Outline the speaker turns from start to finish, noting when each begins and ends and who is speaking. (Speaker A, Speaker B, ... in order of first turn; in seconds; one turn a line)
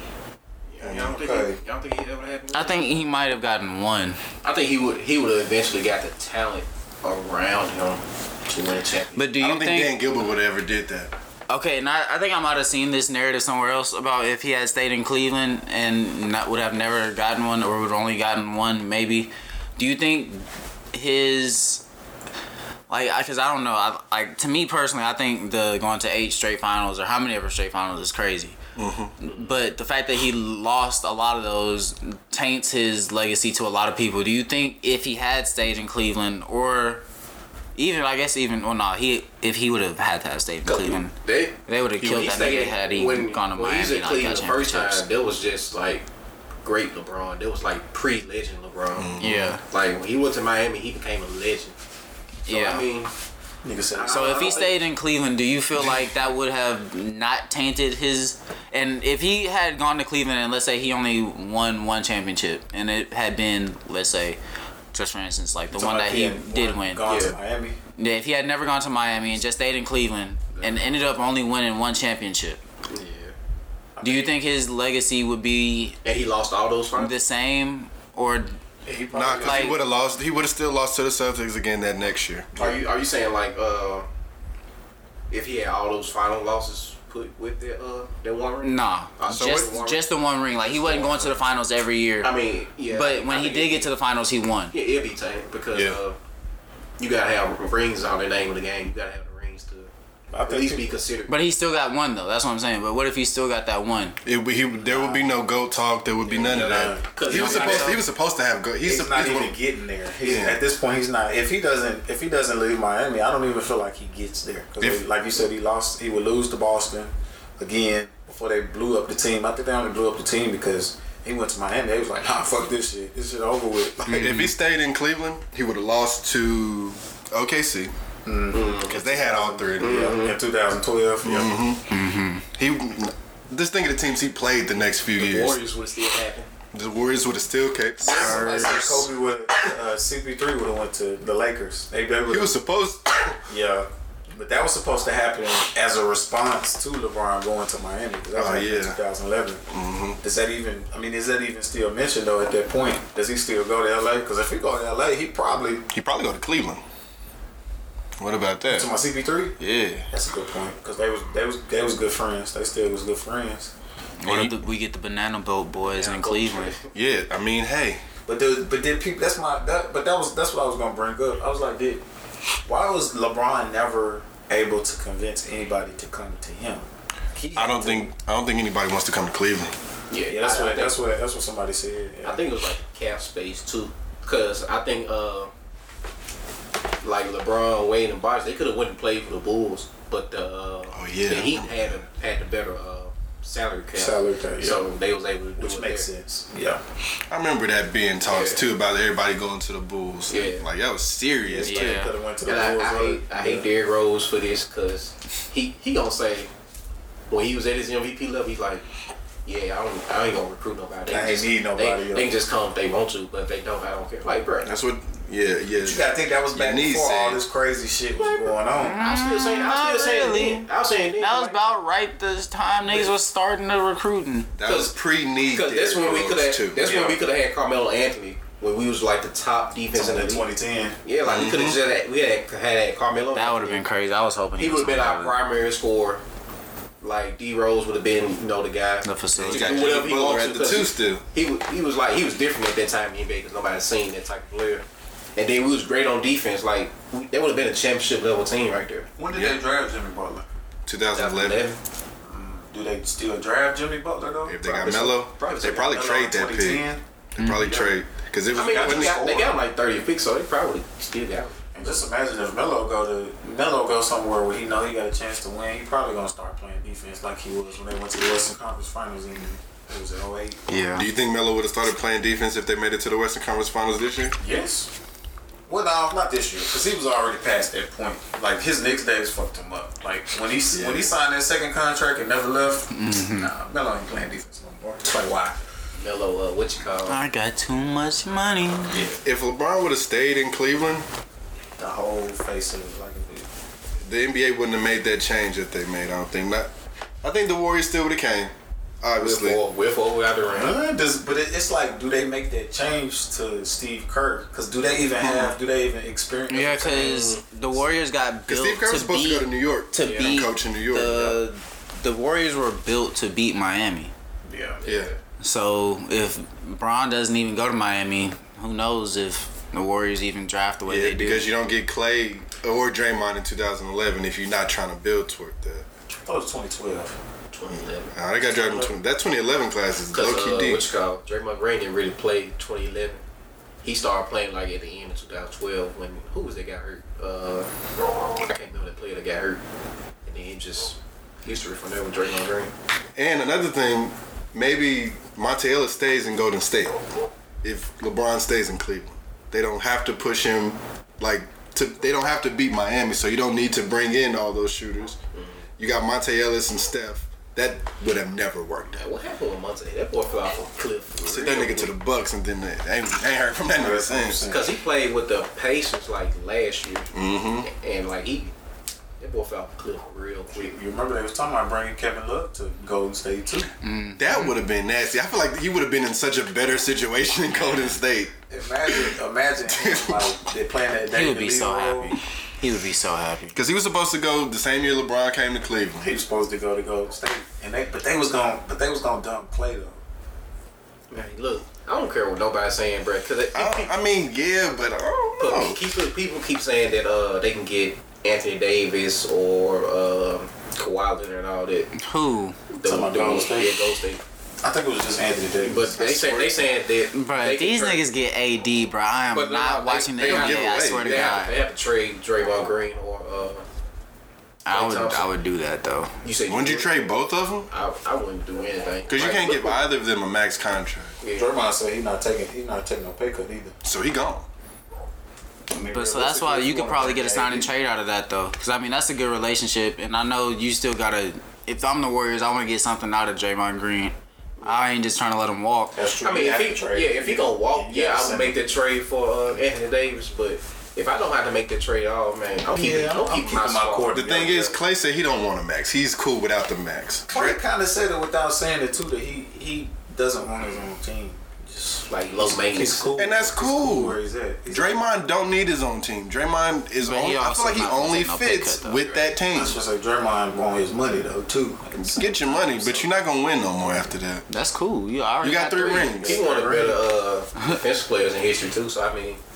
Speaker A: 0.7-3.0
Speaker B: 0.8-1.6
Speaker C: 2.5-4.2
Speaker A: 4.4-9.3
Speaker C: 9.2-9.9
Speaker D: 9.4-11.1
Speaker C: 11.5-21.8
Speaker C: 22.9-28.6
Speaker D: 28.8-29.1
Speaker C: 29.2-37.0
Speaker C: 37.8-41.1
Speaker A: 40.6-46.0
Speaker C: 41.7-45.0
Speaker A: 46.6-51.8
Speaker D: 48.9-49.6
Speaker C: 49.2-49.6
Speaker A: 52.5-53.1
Speaker C: 52.5-52.9
Speaker B: 53.6-54.6
Speaker A: 53.9-54.8
Speaker C: 54.1-64.4
Speaker C: 64.9-67.1
Speaker B: 65.7-67.8
Speaker A: 67.0-67.4
Speaker C: 68.0-72.6
Speaker A: 70.6-70.9
Speaker A: 72.9-73.3
Speaker B: 74.0-74.3
Speaker C: 74.0-76.0
Speaker A: 76.0-77.1
Speaker C: 77.0-78.6
Speaker B: 78.9-79.7
Speaker D: 79.1-82.7
Speaker C: 79.4-79.8
Speaker A: 82.5-84.1
Speaker A: 85.3-90.0
Speaker C: 88.6-92.3
Speaker D: 89.3-89.7
Speaker A: 90.6-91.4
Speaker A: 92.2-93.9
Speaker C: 92.9-94.7
Speaker A: 94.7-96.2
Speaker D: 95.7-96.0
Speaker A: 97.0-99.9
Speaker B: 100.3-101.0
Speaker A: 100.5-101.4
Speaker C: 101.3-104.2
Speaker D: 104.2-109.6
Speaker B: 104.7-105.3
Speaker B: 106.2-107.2
Speaker A: 106.2-108.0
Speaker C: 107.2-108.0
Speaker B: 108.8-124.5
Speaker D: 110.2-110.6
Speaker C: 124.1-124.5
Speaker D: 124.1-127.9
Speaker B: 128.2-131.5
Speaker A: 128.5-129.0
Speaker D: 128.8-130.2
Speaker A: 129.8-130.4
Speaker D: 131.2-131.9
Speaker C: 131.9-132.4
Speaker D: 132.6-135.6
Speaker A: 135.2-136.5
Speaker D: 136.7-139.1
Speaker B: 138.0-142.5
Speaker C: 138.1-139.1
Speaker D: 142.3-143.4
Speaker B: 143.5-149.7
Speaker D: 148.3-149.0
Speaker D: 149.7-150.2
Speaker B: 150.2-155.9
Speaker D: 155.9-156.8
Speaker D: 158.2-158.9
Speaker B: 158.7-159.6
Speaker D: 159.6-160.1
Speaker B: 160.1-163.7
Speaker C: 164.2-166.8
Speaker D: 164.2-164.6
Speaker A: 165.8-166.9
Speaker D: 166.9-168.0
Speaker B: 168.3-172.1
Speaker B: 172.6-178.1
Speaker D: 177.6-179.7
Speaker A: 180.1-181.0
Speaker B: 180.3-182.5
Speaker A: 182.2-185.5
Speaker A: 187.0-196.1
Speaker D: 190.9-192.0
Speaker B: 193.9-194.9
Speaker B: 195.6-196.8
Speaker D: 197.3-202.0
Speaker A: 198.2-198.6
Speaker A: 200.3-200.7
Speaker B: 201.4-203.7
Speaker C: 201.7-202.1
Speaker A: 202.4-206.5
Speaker A: 207.3-208.9
Speaker A: 209.4-214.7
Speaker B: 211.1-212.4
Speaker D: 214.6-217.4
Speaker B: 215.8-219.0
Speaker A: 218.2-221.8
Speaker C: 218.8-220.7
Speaker C: 221.2-224.5
Speaker A: 222.9-223.2
Speaker D: 224.6-227.0
Speaker A: 224.7-230.5
Speaker B: 226.8-227.2
Speaker B: 229.9-231.0
Speaker A: 231.0-233.8
Speaker D: 231.2-231.8
Speaker C: 233.3-235.4
Speaker A: 234.6-236.2
Speaker A: 237.0-244.8
Speaker C: 239.0-239.9
Speaker D: 239.4-241.2
Speaker A: 245.4-249.1
Speaker B: 249.2-250.5
Speaker D: 249.3-249.6
Speaker D: 250.9-251.7
Speaker A: 251.1-251.8
Speaker B: 252.2-257.0
Speaker D: 254.5-259.3
Speaker A: 254.8-255.9
Speaker C: 257.4-257.7
Speaker B: 257.7-257.9
Speaker B: 258.5-259.6
Speaker A: 258.5-261.9
Speaker B: 261.8-270.8
Speaker C: 270.7-271.1
Speaker D: 270.9-274.4
Speaker B: 274.4-274.9
Speaker B: 275.7-285.6
Speaker D: 280.7-281.1
Speaker C: 282.9-283.5
Speaker A: 286.0-287.2
Speaker C: 287.1-289.0
Speaker B: 288.9-289.2
Speaker D: 289.1-291.1
Speaker B: 291.8-293.5
Speaker D: 294.0-296.7
Speaker D: 297.2-299.6
Speaker A: 299.2-300.8
Speaker B: 300.5-307.4
Speaker C: 305.2-305.5
Speaker C: 306.5-314.1
Speaker A: 307.0-307.4
Speaker D: 308.5-311.4
Speaker A: 310.0-310.4
Speaker B: 314.5-314.8
Speaker A: 314.7-315.2
Speaker D: 314.9-315.1
Speaker C: 315.4-321.5
Speaker D: 320.9-325.9
Speaker B: 326.1-327.2
Speaker A: 327.5-328.9
Speaker D: 327.7-330.8
Speaker A: 330.1-333.2
Speaker A: 333.8-337.7
Speaker A: 338.4-339.6
Speaker A: 340.2-342.7
Speaker D: 343.2-347.0
Speaker D: 347.6-355.2
Speaker A: 355.3-355.6
Speaker D: 355.8-359.0
Speaker A: 359.0-361.9
Speaker D: 361.3-364.4
Speaker B: 363.7-364.7
Speaker A: 364.5-368.5
Speaker D: 367.1-367.7
Speaker A: 369.2-370.8
Speaker B: 370.5-373.7
Speaker C: 373.8-374.5
Speaker D: 374.2-379.1
Speaker B: 378.5-382.2
Speaker D: 379.7-380.3
Speaker C: 381.1-383.6
Speaker D: 383.5-386.1
Speaker B: 386.0-390.0
Speaker A: 391.1-393.9
Speaker D: 393.5-395.9
Speaker A: 395.4-401.9
Speaker C: 402.0-402.6
Speaker A: 402.7-404.2
Speaker B: 402.8-404.0
Speaker B: 404.6-406.6
Speaker A: 405.6-408.0
Speaker C: 407.1-411.6
Speaker A: 409.3-413.7
Speaker D: 410.2-411.4
Speaker C: 414.7-416.1
Speaker A: 414.7-415.3
Speaker A: 416.2-417.0
Speaker D: 416.5-417.7
Speaker A: 417.7-419.8
Speaker D: 419.1-421.2
Speaker A: 421.2-421.5
Speaker B: 421.3-423.8
Speaker D: 423.8-424.5
Speaker B: 425.7-427.7
Speaker C: 425.8-436.0
Speaker B: 435.9-438.6
Speaker A: 436.2-444.2
Speaker B: 442.7-444.8
Speaker D: 444.1-447.6
Speaker B: 447.3-455.3
Speaker A: 452.1-453.1
Speaker D: 453.2-454.2
Speaker D: 454.7-459.8
Speaker C: 457.0-459.1
Speaker B: 459.5-463.1
Speaker D: 462.0-464.5
Speaker C: 464.5-466.1
Speaker D: 465.4-466.5
Speaker A: 465.8-469.4
Speaker B: 466.2-467.0